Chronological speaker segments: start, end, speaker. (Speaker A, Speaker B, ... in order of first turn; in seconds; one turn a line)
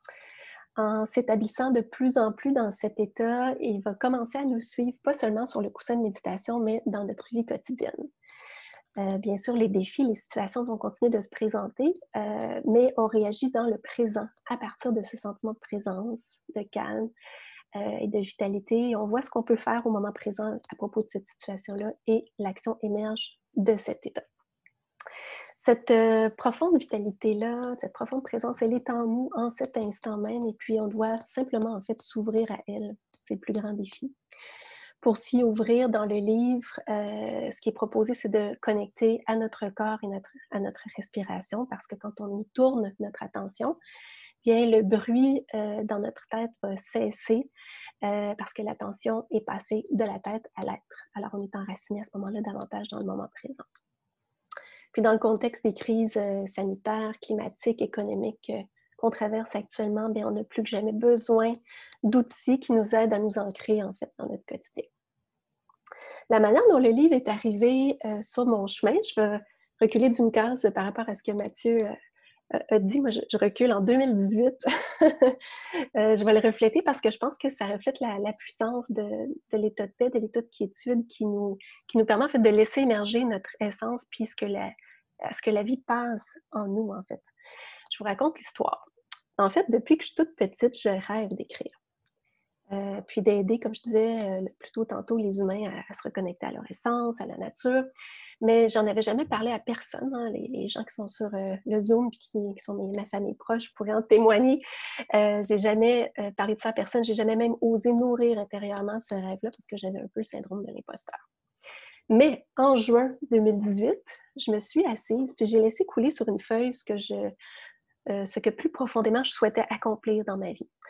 Speaker A: 0.8-8.1
Speaker A: 9.0-17.1
Speaker A: 17.8-24.2
Speaker A: 25.6-34.1
Speaker A: 35.0-43.8
Speaker A: 44.4-47.5
Speaker A: 48.0-53.7
Speaker A: 54.9-64.9
Speaker A: 66.3-72.0
Speaker A: 72.5-87.3
Speaker A: 87.9-88.9
Speaker A: 89.4-91.7
Speaker A: 92.7-97.9
Speaker A: 98.4-104.6
Speaker A: 105.1-111.2
Speaker A: 112.1-117.3
Speaker A: 118.1-120.7